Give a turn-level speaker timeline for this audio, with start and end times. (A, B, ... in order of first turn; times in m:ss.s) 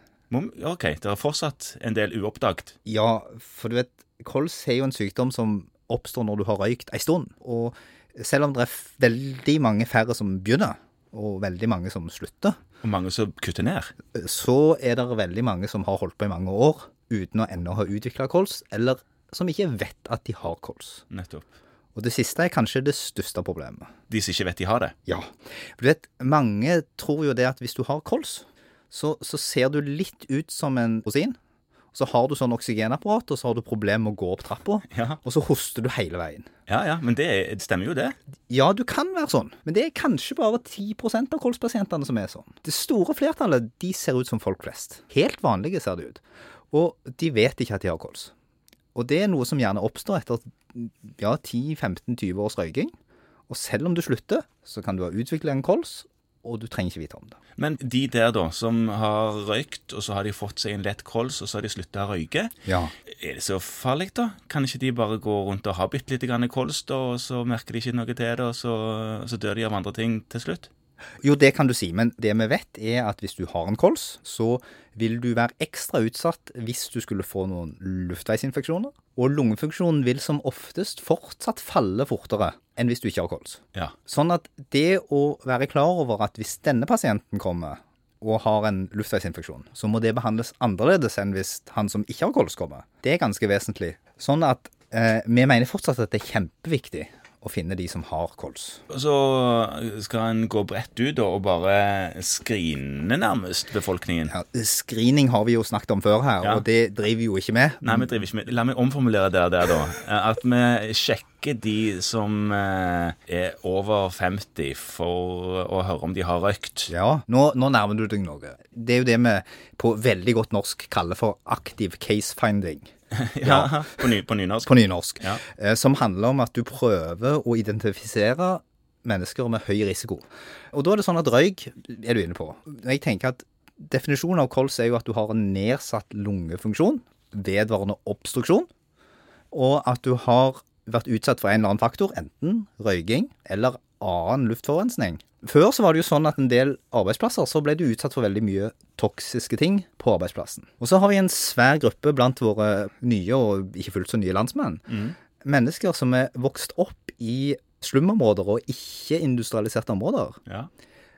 0:00.3-0:02.7 A
0:02.8-0:12.6 B
0:12.8-0:13.9 A
0:14.1-0:21.0 B
0:21.1-0:21.5 A
0:22.0-0:23.9 B
0:24.1-0:24.9 A
0:25.1-0:31.4 B
0:31.9-0:36.5 B
0:34.9-0:35.2 A
0:36.7-0:38.2 A
0:38.5-0:48.3 B
0:49.0-0:52.9 B
0:53.5-0:57.4 B
0:57.6-1:02.5 A
1:02.7-1:02.9 B
1:03.1-1:10.7 A
1:11.2-1:38.8 B
1:38.9-1:44.3 A
1:44.3-1:48.2 B
1:47.8-1:56.9 A
1:56.9-2:02.9 B
2:03.1-2:05.4 A
2:03.4-2:04.0 B
2:04.6-2:18.7 B
2:19.5-2:34.9 B
2:34.9-2:35.2 A
2:35.4-2:40.4 B